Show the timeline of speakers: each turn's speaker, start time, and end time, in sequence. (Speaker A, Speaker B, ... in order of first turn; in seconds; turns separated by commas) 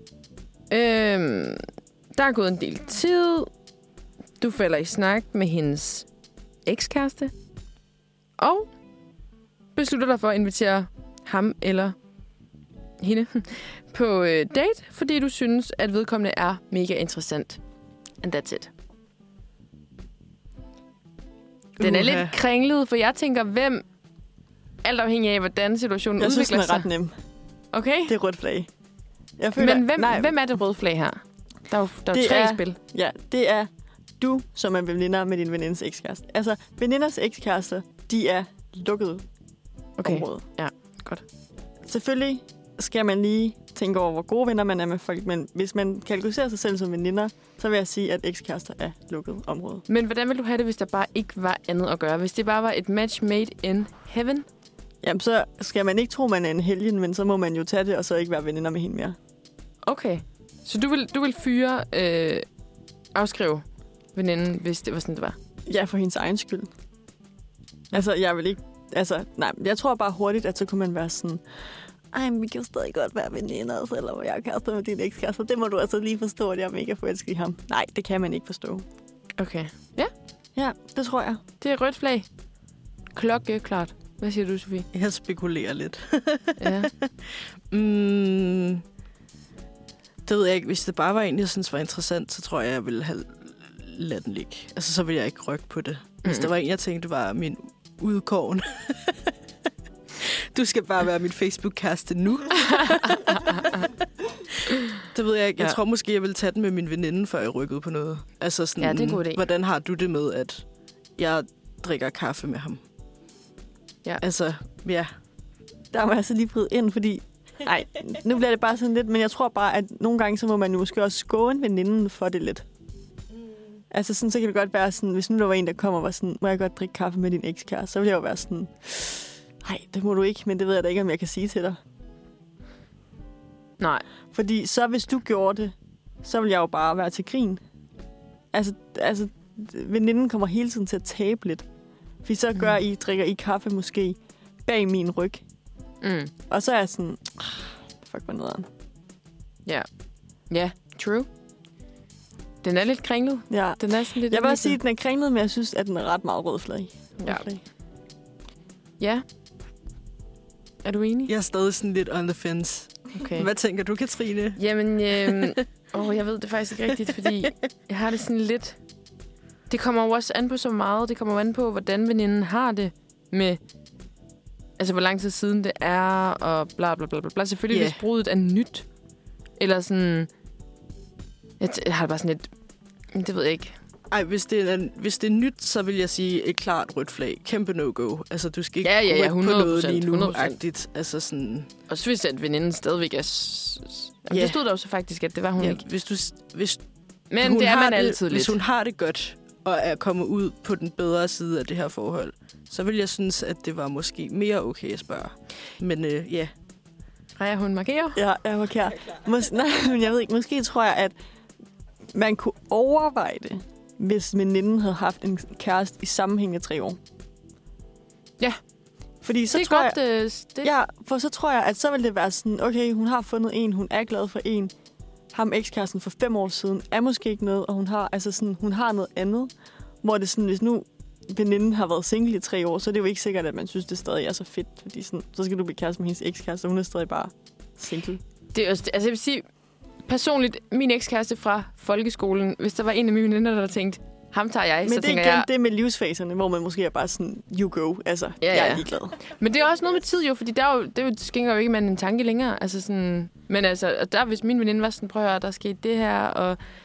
Speaker A: 0.7-3.5, Speaker A: 4.4-6.1, Speaker A: 6.6-7.3, Speaker A: 8.4-8.7, Speaker A: 9.7-11.9, Speaker A: 13.0-17.6, Speaker A: 18.2-18.7, Speaker B: 21.8-22.3, Speaker A: 21.8-23.9, Speaker A: 24.8-26.9, Speaker C: 26.2-27.1, Speaker A: 27.7-28.1, Speaker C: 28.1-28.7, Speaker C: 29.4-30.3, Speaker A: 29.6-32.8, Speaker C: 32.1-39.2, Speaker A: 40.0-41.2, Speaker C: 40.0-40.4, Speaker C: 41.9-49.8, Speaker A: 49.9-54.5, Speaker C: 55.0-59.1, Speaker A: 59.8-62.5, Speaker A: 63.1-63.6, Speaker A: 64.1-65.4, Speaker C: 65.7-66.7, Speaker C: 67.9-71.6, Speaker C: 72.1-78.8, Speaker A: 79.4-80.1, Speaker C: 80.5-81.4, Speaker A: 81.6-82.3, Speaker A: 83.1-84.9, Speaker B: 84.9-88.8, Speaker A: 86.6-86.9, Speaker B: 90.2-99.3, Speaker B: 100.2-103.9, Speaker A: 102.7-103.8, Speaker B: 104.5-110.6, Speaker A: 108.8-109.4, Speaker B: 111.2-112.8, Speaker B: 114.2-115.1, Speaker C: 115.9-122.7, Speaker C: 123.9-131.8, Speaker A: 133.8-134.0, Speaker C: 134.3-137.6, Speaker C: 138.5-141.7, Speaker C: 142.2-145.4, Speaker A: 146.0-146.3, Speaker C: 146.5-148.7, Speaker A: 150.5-151.3, Speaker A: 152.6-154.8, Speaker C: 153.5-157.6, Speaker A: 157.2-157.5, Speaker A: 159.0-159.2, Speaker A: 160.8-161.3, Speaker B: 161.3-165.5, Speaker A: 163.1-163.5, Speaker A: 164.6-168.8, Speaker A: 169.7-173.6, Speaker A: 174.8-178.8, Speaker B: 177.7-178.0, Speaker A: 179.6-180.3, Speaker A: 181.6-182.5, Speaker A: 183.1-183.7, Speaker B: 184.1-191.7, Speaker A: 188.8-190.6, Speaker A: 191.9-195.8, Speaker B: 194.3-194.6, Speaker B: 195.6-196.8, Speaker A: 197.3-198.6, Speaker B: 197.4-206.5, Speaker A: 207.4-208.2, Speaker C: 208.2-211.1, Speaker C: 212.1-217.0, Speaker C: 219.2-220.0, Speaker A: 219.5-220.7, Speaker C: 220.6-224.7, Speaker C: 225.3-229.5, Speaker C: 230.0-238.2, Speaker A: 238.5-239.4, Speaker A: 240.1-245.5, Speaker C: 244.8-249.2, Speaker A: 248.4-256.6